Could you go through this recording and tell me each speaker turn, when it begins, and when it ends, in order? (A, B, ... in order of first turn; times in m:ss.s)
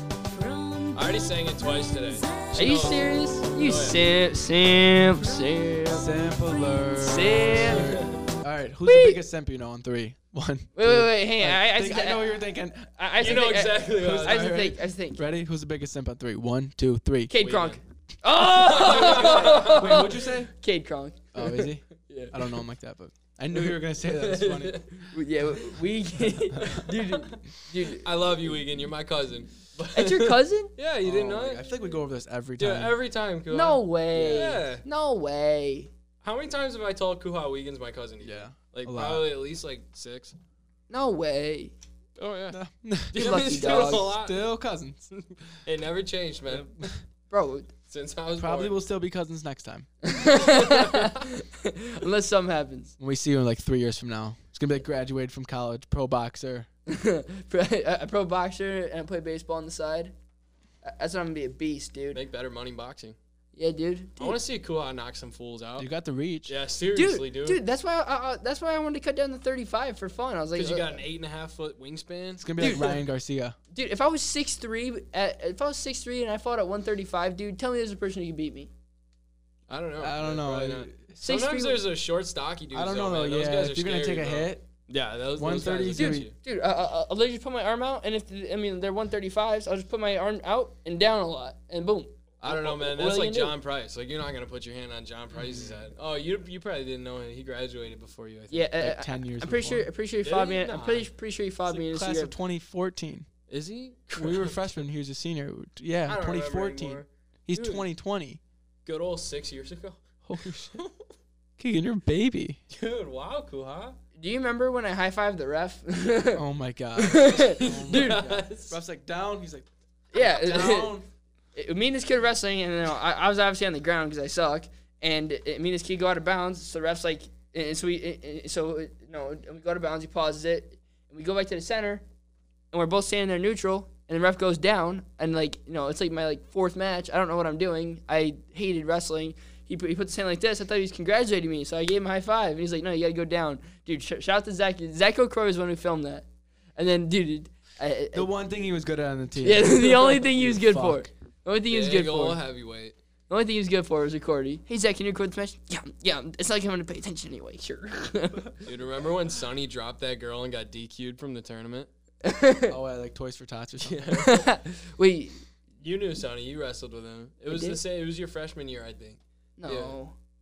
0:00.2-0:03.1 A
0:01.0-0:04.0 B
0:02.6-0:06.1 C
0:05.1-0:07.6 A
0:06.0-0:12.9 D
0:07.0-0:08.0 C
0:07.6-0:08.2 B
0:08.8-0:09.2 C
0:10.8-0:12.4 C
0:13.0-0:15.2 C
0:13.2-0:14.6 B
0:13.8-0:17.4 D
0:17.3-0:22.3 C
0:17.4-0:17.8 B
0:18.5-0:19.9 B
0:19.2-0:20.5 D
0:21.3-0:25.1 D
0:23.7-0:25.0 B
0:25.1-0:28.1 C
0:26.5-0:26.8 D
0:26.7-0:27.3 B
0:27.9-0:31.8 B
0:29.9-0:30.7 C
0:31.0-0:33.0 D
0:32.6-0:34.8 B
0:33.5-0:35.9 C
0:34.2-0:34.5 D
0:36.2-0:40.4 B
0:38.2-0:39.3 D
0:40.9-0:41.8 C
0:42.2-0:42.6 B
0:42.5-0:45.1 D
0:43.1-0:44.5 B
0:43.2-0:44.1 C
0:45.1-0:46.9 B
0:46.5-0:47.0 D
0:47.3-0:47.7 C
0:47.9-0:48.8 B
0:48.4-0:49.9 D
0:50.0-0:52.9 C
0:50.2-0:51.2 B
0:53.0-0:56.7 D
0:56.9-1:00.1 C
1:00.8-1:02.2 C
1:02.1-1:03.2 B
1:03.6-1:04.4 C
1:04.2-1:05.9 B
1:05.8-1:06.5 D
1:06.5-1:07.6 B
1:06.9-1:11.0 C
1:10.6-1:12.9 B
1:12.4-1:13.6 D
1:12.6-1:13.0 C
1:13.7-1:18.7 C
1:19.7-1:26.3 B
1:20.0-1:21.1 D
1:21.2-1:21.8 C
1:22.7-1:24.6 D
1:25.4-1:26.3 D
1:25.9-1:33.6 C
1:32.4-1:38.7 B
1:35.4-1:35.8 D
1:38.5-1:42.4 C
1:38.8-1:39.9 D
1:40.2-1:41.1 B
1:41.7-1:43.3 D
1:43.5-1:44.7 B
1:44.2-1:48.4 D
1:46.1-1:47.9 B
1:48.9-1:50.0 B
1:50.2-1:50.8 D
1:50.6-1:50.9 B
1:51.6-1:52.6 D
1:52.7-1:54.0 B
1:54.2-1:56.4 C
1:56.4-2:01.1 D
1:57.0-1:58.2 C
1:57.6-1:58.8 B
2:00.1-2:01.0 C
2:01.6-2:12.0 C
2:12.7-2:28.3 C
2:28.1-2:31.1 D
2:29.4-2:32.4 C
2:31.7-2:33.0 B
2:33.3-2:38.5 C
2:38.6-2:41.9 B
2:42.2-2:42.7 C
2:42.7-2:44.1 D
2:43.8-2:44.5 B
2:44.1-2:45.4 C
2:45.8-2:50.0 B
2:47.5-2:47.8 C
2:49.6-2:50.2 C